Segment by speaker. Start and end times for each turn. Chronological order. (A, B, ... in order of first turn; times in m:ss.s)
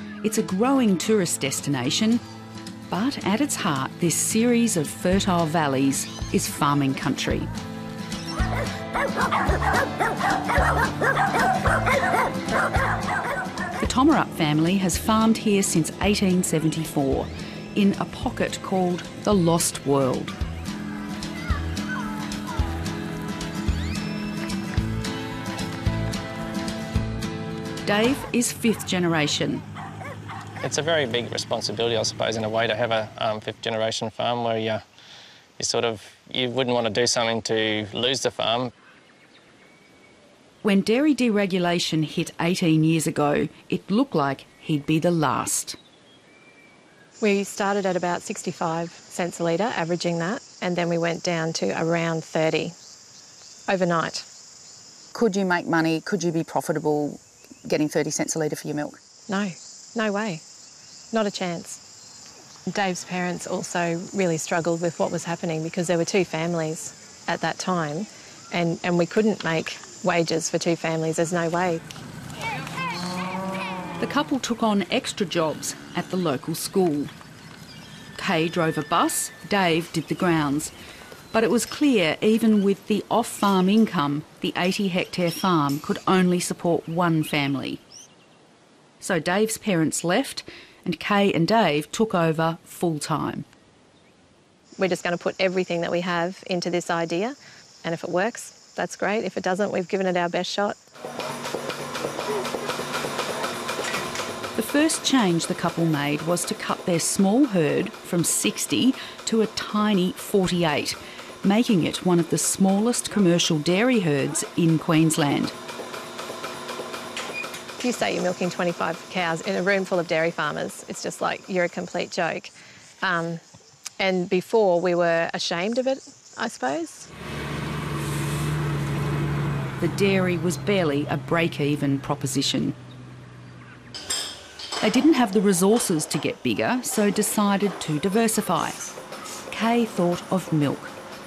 0:00.2-0:02.2 A
0:02.9-0:07.5 A
0:13.8-0:20.3 A
0:27.8-0:29.6 A
0:30.6-0:34.8 B
0:35.6-0:38.7 B
0:40.6-0:45.8 A
0:47.2-0:52.7 C
0:53.7-0:54.2 C
0:55.1-0:59.0 D
0:59.3-1:00.4 C
1:01.1-1:01.8 C
1:02.7-1:11.8 C
1:14.0-1:17.1 A
1:18.2-1:20.7 A
1:21.3-1:27.8 A
1:29.0-1:33.4 A
1:34.8-1:40.8 C
1:44.5-1:55.5 A
1:57.8-2:03.4 C
2:04.0-2:07.1 C
2:09.8-2:12.7 A
2:14.8-2:18.8 A
2:19.5-2:20.9 A